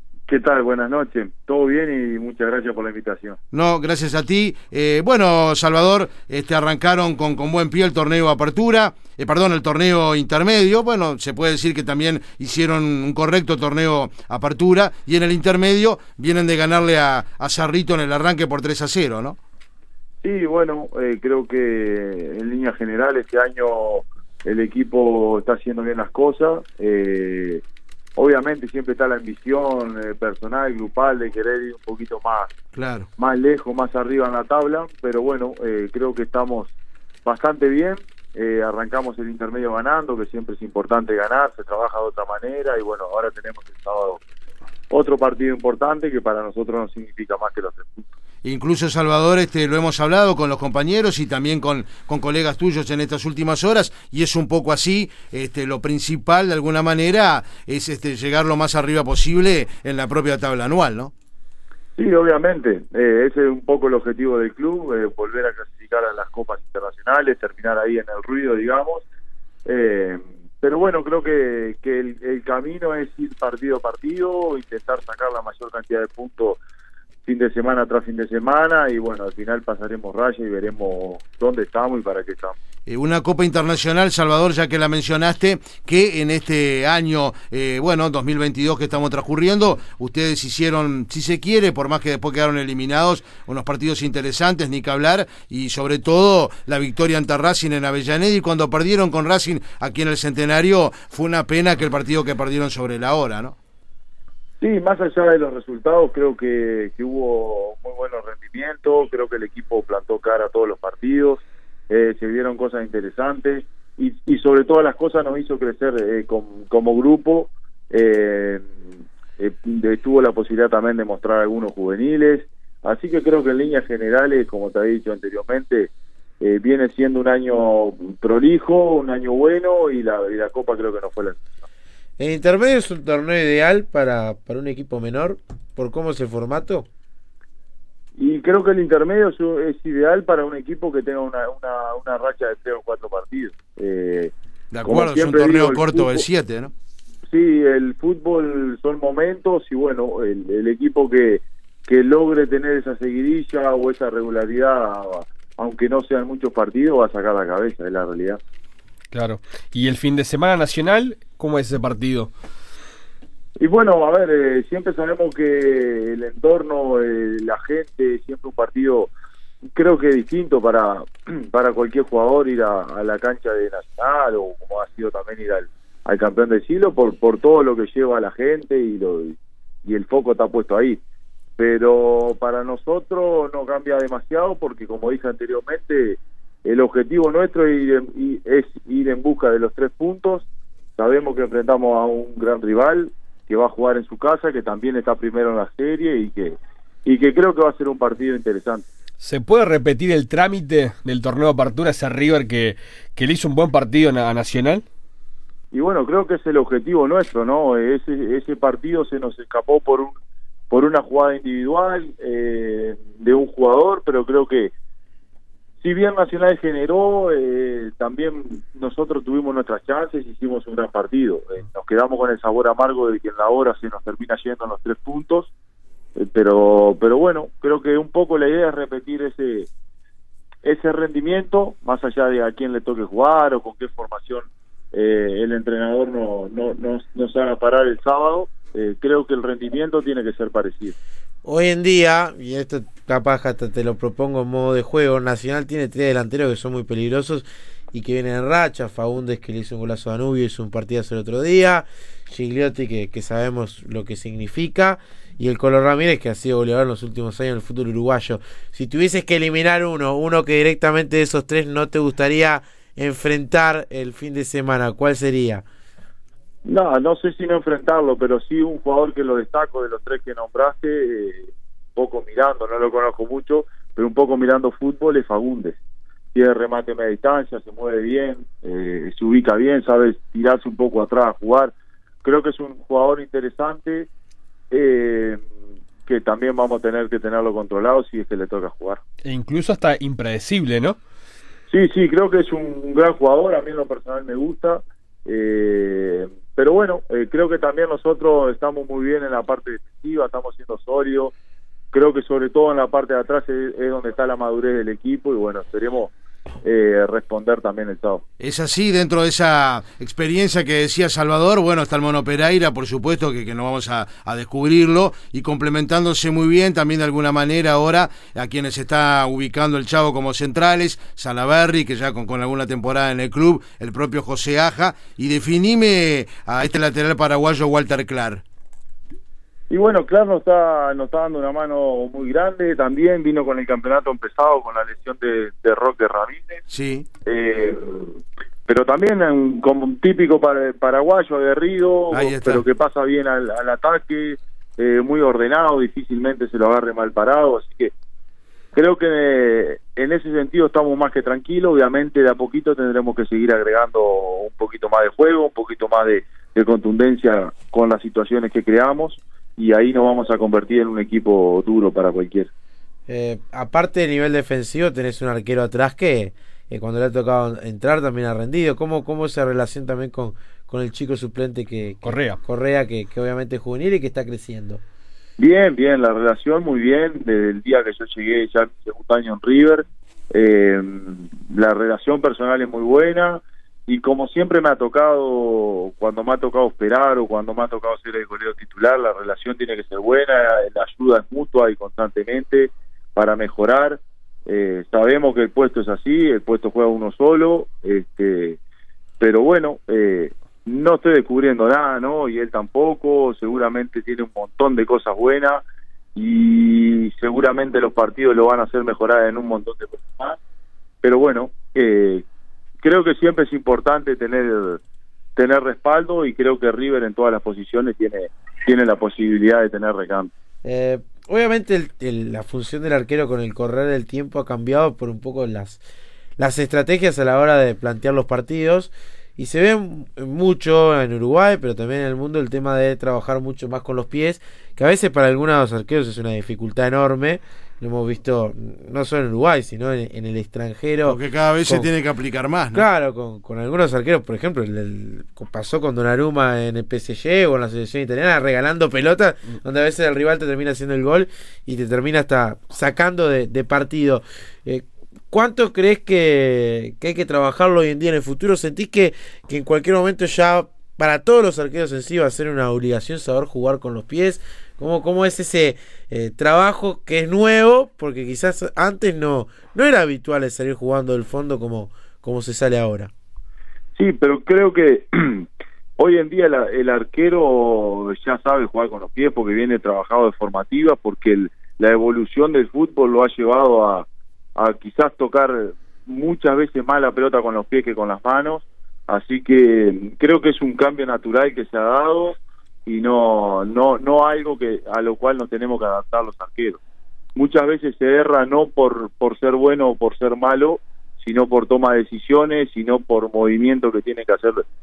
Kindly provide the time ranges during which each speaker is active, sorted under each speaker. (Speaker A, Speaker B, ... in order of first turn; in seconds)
Speaker A: 0.3-3.4, 20.2-27.6, 28.2-32.5, 33.2-36.7, 37.2-44.2, 44.9-48.1, 62.0-69.0, 69.7-76.6, 77.2-82.6, 104.6-118.7, 119.4-131.4, 138.2-144.3, 144.8-146.2, 147.3-158.4, 163.6-169.1, 169.8-181.0, 181.6-198.8, 205.7-210.2, 210.7-214.7, 215.8-225.5, 226.2-229.7, 230.6-240.9, 266.6-275.8, 276.3-284.1, 284.7-285.4, 286.0-289.0, 291.7-301.3, 301.9-308.2, 329.7-336.6, 337.2-347.9, 348.7-362.5, 375.4-398.6, 399.2-405.6, 406.1-410.4, 411.0-412.2, 412.8-414.8, 415.4-420.3, 473.9-475.5, 476.0-496.8, 497.4-504.6
Speaker B: 3.5-19.4, 32.8-33.1, 48.4-61.1, 82.9-103.6, 144.7-146.7, 308.4-328.4, 336.7-337.1, 342.1-342.6, 441.0-442.8
Speaker C: 132.2-136.8, 241.4-265.6, 363.1-374.8, 420.6-425.8, 426.4-441.9, 442.7-473.1
Speaker D: 159.1-162.3, 199.2-204.8, 289.2-291.0, 372.0-372.4